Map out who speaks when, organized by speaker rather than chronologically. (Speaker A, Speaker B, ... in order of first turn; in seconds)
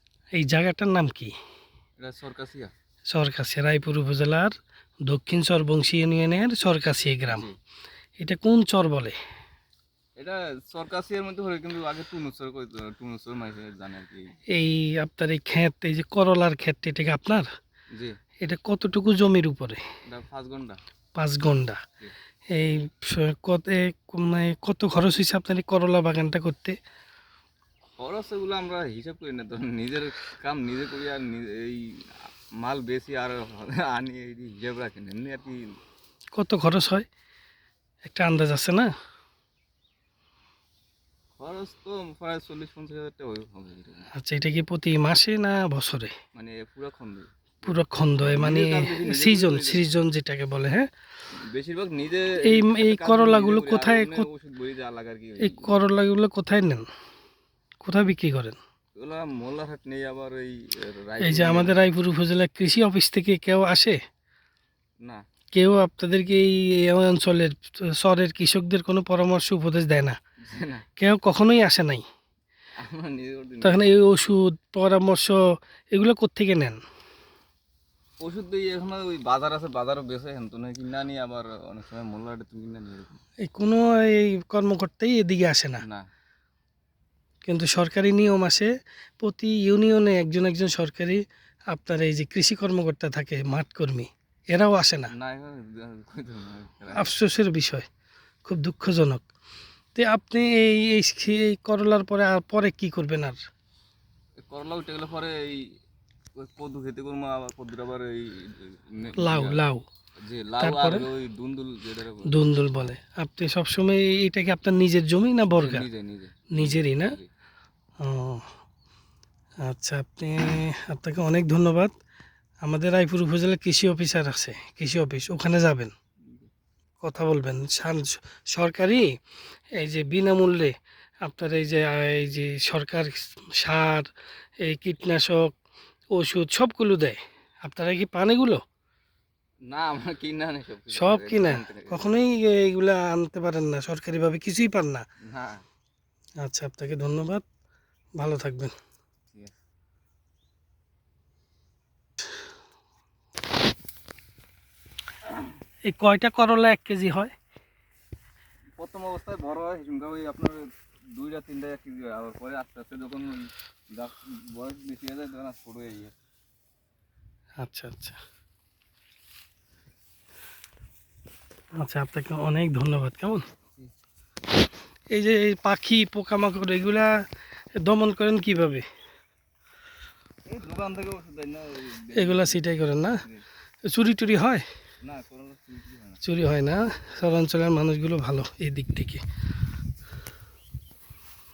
Speaker A: 0.4-1.3, 3.1-4.5, 5.1-7.4, 8.2-9.2, 14.5-17.4, 18.4-19.8, 21.1-21.8, 22.5-26.8, 36.4-37.0, 38.0-38.9, 44.1-46.1, 47.6-50.9, 52.4-54.3, 55.4-56.9, 57.8-58.6, 61.2-64.0, 65.5-70.2, 71.0-72.0, 73.6-75.4, 75.9-76.8, 83.4-85.8, 87.5-88.7, 89.2-95.1, 97.0-97.9, 98.4-99.2, 99.9-103.4, 109.2-109.8, 110.6-111.0, 112.3-115.8, 116.5-117.2, 118.0-118.5, 119.6-121.9, 122.6-125.9, 127.0-129.1, 129.8-135.6, 136.1-138.6, 140.9-145.1, 146.4-147.4, 148.2-148.7, 155.8-157.3, 167.6-168.2, 171.8-173.4, 175.1-177.1, 177.8-178.8, 182.1-183.2, 183.8-184.6, 186.2-189.2
Speaker B: 2.0-2.7, 7.3-7.5, 10.2-14.3, 20.1-20.8, 28.0-31.8, 32.6-35.6, 41.4-44.1, 46.3-49.9, 51.5-55.7, 59.0-61.8, 70.4-70.8, 72.8-73.8, 78.2-83.1, 95.1-97.1, 104.4-105.6, 106.4-109.6, 110.3-112.4, 115.6-117.3, 139.7-142.1, 145.3-145.6, 158.8-160.6, 161.1-166.1, 180.5-183.4, 185.0-186.2